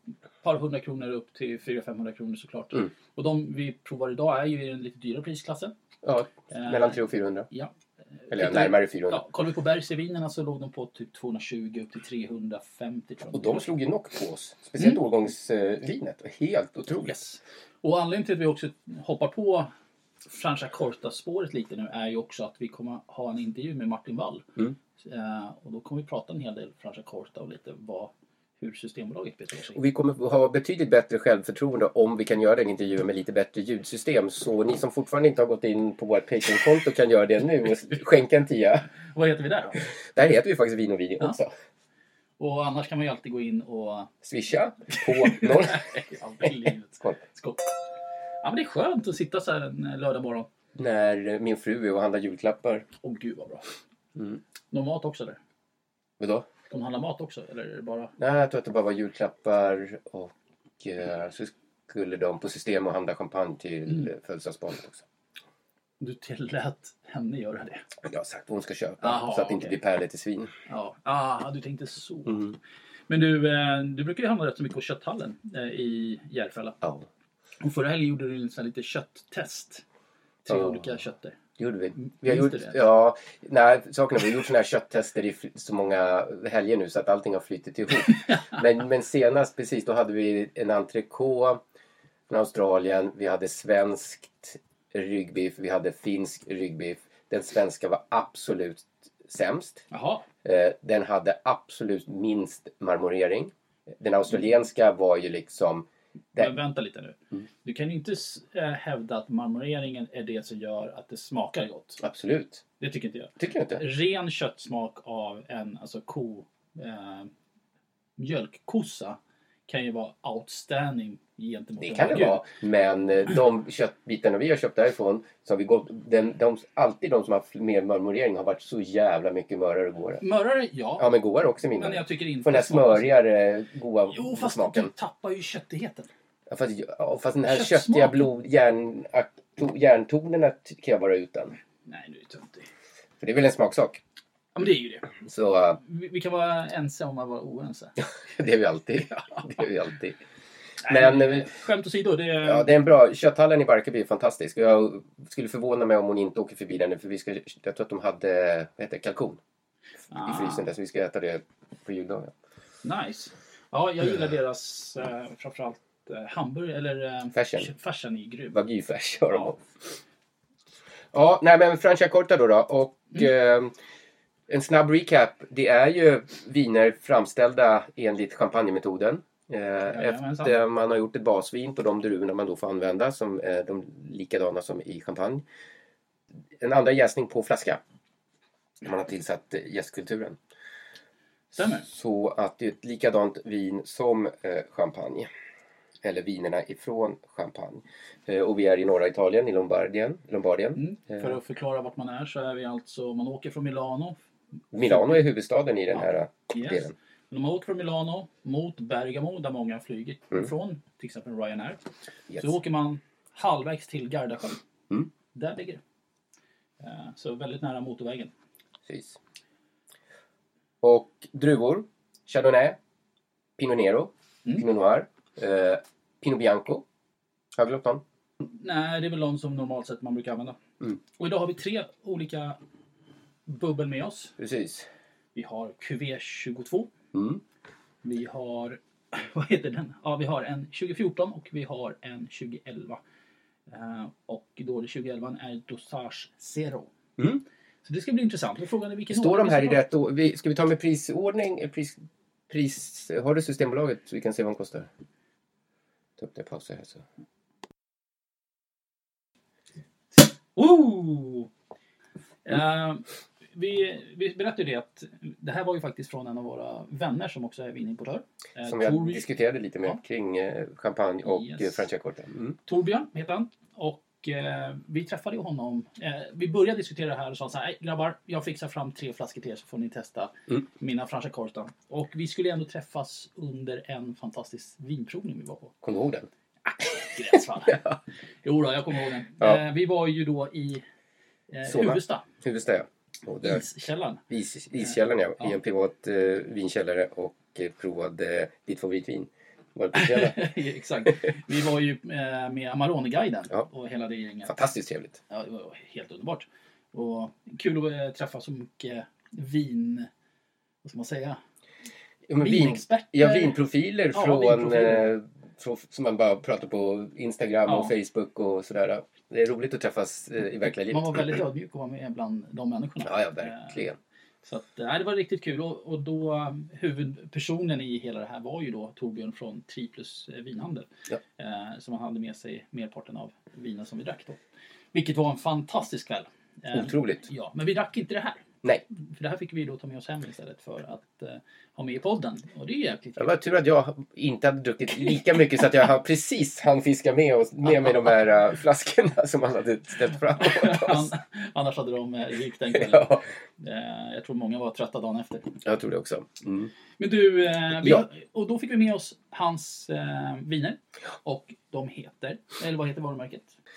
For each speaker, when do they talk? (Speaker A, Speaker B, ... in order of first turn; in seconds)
Speaker A: 0.4-5.7, 6.5-7.7, 8.2-13.6, 17.1-19.7, 20.3-24.5, 25.0-29.8, 39.1-39.9, 42.4-44.1, 44.9-47.6, 48.4-50.5, 53.0-53.7, 54.7-55.4, 56.7-58.1, 66.0-67.8, 69.0-69.8, 70.7-72.5, 73.1-76.8, 77.6-79.8, 80.5-81.4, 82.0-82.8, 99.9-100.2, 106.4-112.0, 112.8-117.3, 118.2-122.5, 130.2-131.1, 131.7-133.2, 134.1-136.1, 137.5-138.3, 141.9-142.7, 144.6-145.1, 145.8-148.0, 150.8-152.7, 160.1-160.7, 162.8-168.6, 179.9-180.6, 191.5-191.9, 200.8-204.2, 204.8-205.2, 205.9-211.8, 212.4-214.6, 215.3-215.8, 216.8-218.3, 228.5-230.6, 231.2-232.6, 233.5-234.4, 235.3-236.9, 238.0-243.0, 243.7-246.9, 247.8-249.8, 260.6-261.5, 262.5-269.2, 271.3-271.8, 272.7-285.7, 286.7-290.8, 291.5-292.2, 293.4-294.2, 299.9-304.6, 305.3-310.1, 310.8-311.4, 312.4-313.6, 314.1-315.1, 320.9-323.8, 324.4-330.9, 331.4-334.4, 334.9-338.4, 339.0-343.3, 350.4-355.5, 357.0-363.6
Speaker B: 6.0-7.5, 8.3-9.2, 13.3-17.2, 29.7-38.9, 40.0-41.5, 44.2-45.9, 50.8-52.9, 54.2-54.4, 56.2-56.5, 58.2-65.0, 68.0-70.5, 72.3-72.6, 76.8-77.1, 80.5-80.9, 81.6-91.6, 92.3-99.9, 100.4-106.5, 112.0-112.6, 113.4-113.8, 121.8-130.2, 131.0-134.9, 136.5-141.6, 143.2-144.0, 145.2-145.8, 148.1-150.2, 150.9-151.5, 152.4-159.4, 160.2-162.3, 167.3-167.7, 168.5-169.6, 171.1-173.7, 174.5-185.4, 186.6-187.8, 188.8-190.4, 191.9-195.3, 196.0-201.4, 204.7-206.9, 218.9-219.2, 220.8-222.8, 223.6-226.8, 227.6-228.0, 234.4-234.9, 237.1-237.4, 247.2-247.4, 249.1-254.9, 256.2-257.0, 268.6-272.6, 285.8-286.3, 291.6-293.6, 294.3-300.5, 304.4-305.2, 312.3-321.3, 323.0-324.0, 336.7-337.2, 343.2-351.1, 352.7-353.2, 355.6-356.7, 357.8-358.1